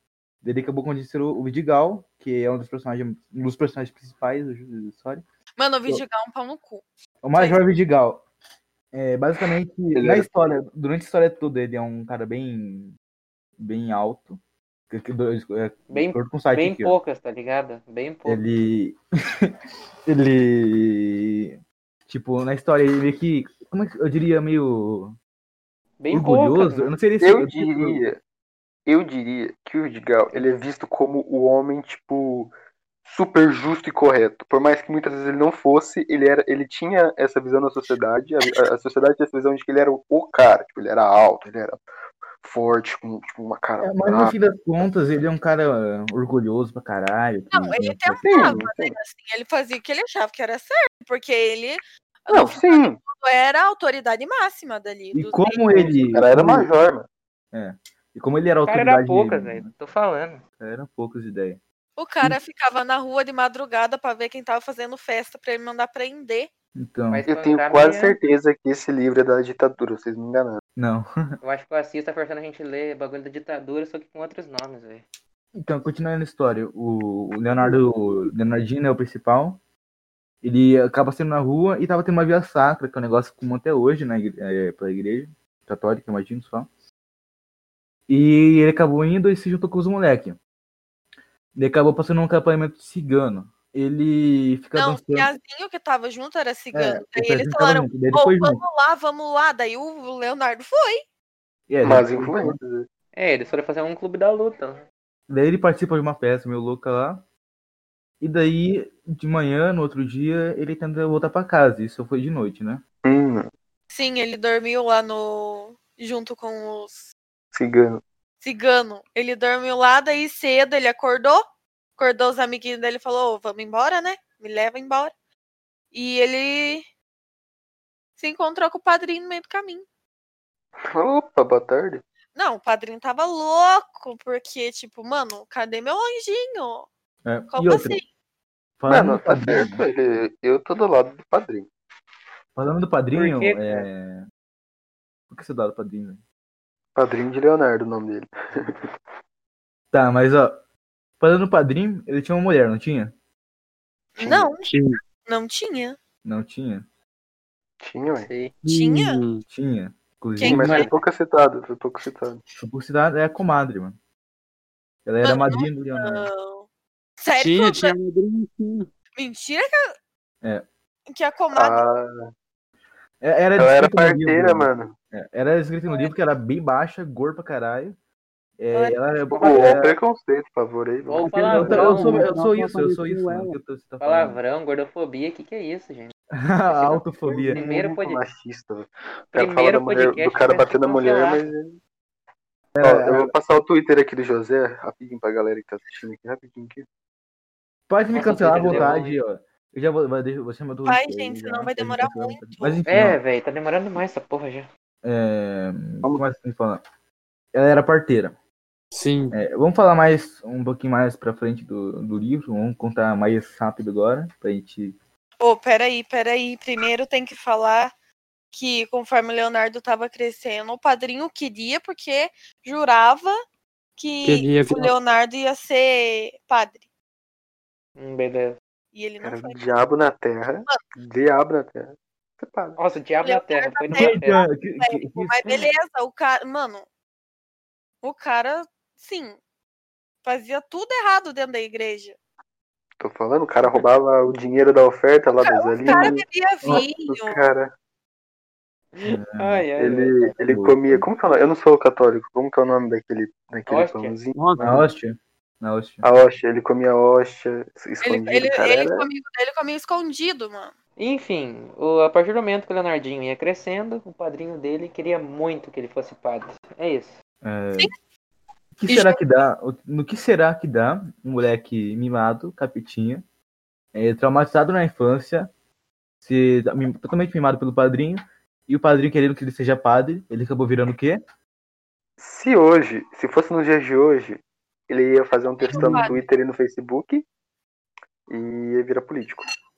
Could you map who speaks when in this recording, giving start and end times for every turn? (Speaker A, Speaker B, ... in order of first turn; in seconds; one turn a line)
Speaker A: 0.4-5.2
Speaker B: 5.6-6.8
Speaker A: 7.2-8.2
Speaker A: 8.9-12.9
Speaker C: 9.9-10.3
Speaker A: 13.6-14.4
Speaker A: 14.9-16.9
Speaker D: 15.9-18.4
Speaker A: 18.3-19.5
Speaker A: 20.1-21.6
Speaker A: 22.1-25.2
Speaker D: 26.0-26.9
Speaker A: 26.1-28.0
Speaker C: 27.2-28.2
Speaker C: 28.9-32.5
Speaker C: 33.0-41.8
Speaker C: 42.4-44.3
Speaker A: 43.8-48.6
Speaker B: 47.5-56.1
Speaker C: 48.2-49.0
Speaker C: 52.3-53.0
Speaker A: 55.1-56.7
Speaker C: 56.1-57.1
Speaker A: 57.5-59.7
Speaker D: 58.7-60.4
Speaker A: 60.6-61.6
Speaker B: 62.0-66.5
Speaker A: 66.8-67.2
Speaker D: 67.1-68.2
Speaker C: 67.3-70.6
Speaker A: 70.8-71.3
Speaker D: 71.4-75.0
Speaker A: 75.6-79.6
Speaker A: 80.4-86.7
Speaker A: 88.1-90.4
Speaker A: 91.6-95.3
Speaker B: 94.8-101.0
Speaker A: 96.7-98.6
Speaker A: 101.7-102.6
Speaker C: 101.8-102.9
Speaker D: 103.2-104.8
Speaker A: 105.3-107.2
Speaker A: 108.2-112.8
Speaker C: 113.0-113.5
Speaker B: 113.9-117.1
Speaker C: 117.5-118.0
Speaker B: 118.4-121.4
Speaker B: 122.0-125.1
Speaker B: 125.9-126.8
Speaker B: 128.2-129.8
Speaker C: 130.9-132.0
Speaker B: 132.3-136.9
Speaker A: 137.2-138.0
Speaker B: 137.5-138.1
Speaker A: 138.8-139.8
Speaker C: 138.9-141.7
Speaker A: 142.6-144.2
Speaker D: 143.1-143.9
Speaker A: 145.3-146.2
Speaker C: 147.0-148.9
Speaker A: 149.9-150.6
Speaker A: 151.2-153.1
Speaker B: 154.2-154.7
Speaker C: 154.2-154.5
Speaker E: 154.6-155.0
Speaker B: 155.2-156.0
Speaker A: 156.2-156.8
Speaker C: 157.8-158.3
Speaker D: 158.2-158.5
Speaker E: 158.6-159.4
Speaker B: 158.7-159.2
Speaker A: 159.5-160.9
Speaker B: 160.4-161.0
Speaker C: 160.4-162.4
Speaker A: 162.6-164.0
Speaker A: 165.1-166.3
Speaker B: 165.2-166.6
Speaker B: 167.2-167.9
Speaker E: 167.4-168.9
Speaker B: 169.2-169.8
Speaker B: 171.1-171.8
Speaker C: 171.5-172.3
Speaker A: 173.2-178.0
Speaker C: 173.6-174.9
Speaker A: 178.6-180.0
Speaker B: 178.7-179.0
Speaker C: 179.4-181.8
Speaker D: 181.1-182.3
Speaker E: 181.2-183.6
Speaker A: 181.5-184.4
Speaker D: 184.0-186.1
Speaker A: 186.3-187.6
Speaker D: 186.7-188.2
Speaker C: 187.3-191.8
Speaker D: 189.3-191.5
Speaker A: 192.8-193.3
Speaker C: 192.8-196.9
Speaker A: 197.9-203.2
Speaker D: 198.1-199.2
Speaker B: 200.8-202.8
Speaker D: 202.9-204.7
Speaker A: 205.0-206.8
Speaker A: 207.5-208.3
Speaker E: 208.9-209.4
Speaker A: 209.3-215.0
Speaker B: 215.4-217.9
Speaker B: 218.5-223.3
Speaker B: 224.0-226.8
Speaker E: 224.2-224.9
Speaker D: 228.0-228.6
Speaker B: 228.9-229.7
Speaker C: 229.2-232.8
Speaker D: 232.8-234.4
Speaker B: 233.2-236.9
Speaker A: 233.9-235.7
Speaker B: 238.0-239.4
Speaker B: 240.2-242.2
Speaker C: 243.0-247.7
Speaker B: 245.5-247.4
Speaker D: 248.9-250.3
Speaker A: 249.0-249.9
Speaker C: 249.8-254.8
Speaker A: 250.4-251.1
Speaker D: 253.7-254.1
Speaker E: 254.3-254.8
Speaker A: 254.6-256.1
Speaker C: 256.0-259.1
Speaker B: 258.0-260.7
Speaker D: 261.0-267.1
Speaker A: 267.4-267.9
Speaker A: 268.8-273.2
Speaker B: 268.9-269.2
Speaker A: 273.9-275.5
Speaker A: 276.2-281.2
Speaker C: 282.2-287.2
Speaker B: 285.6-286.2
Speaker C: 288.3-289.4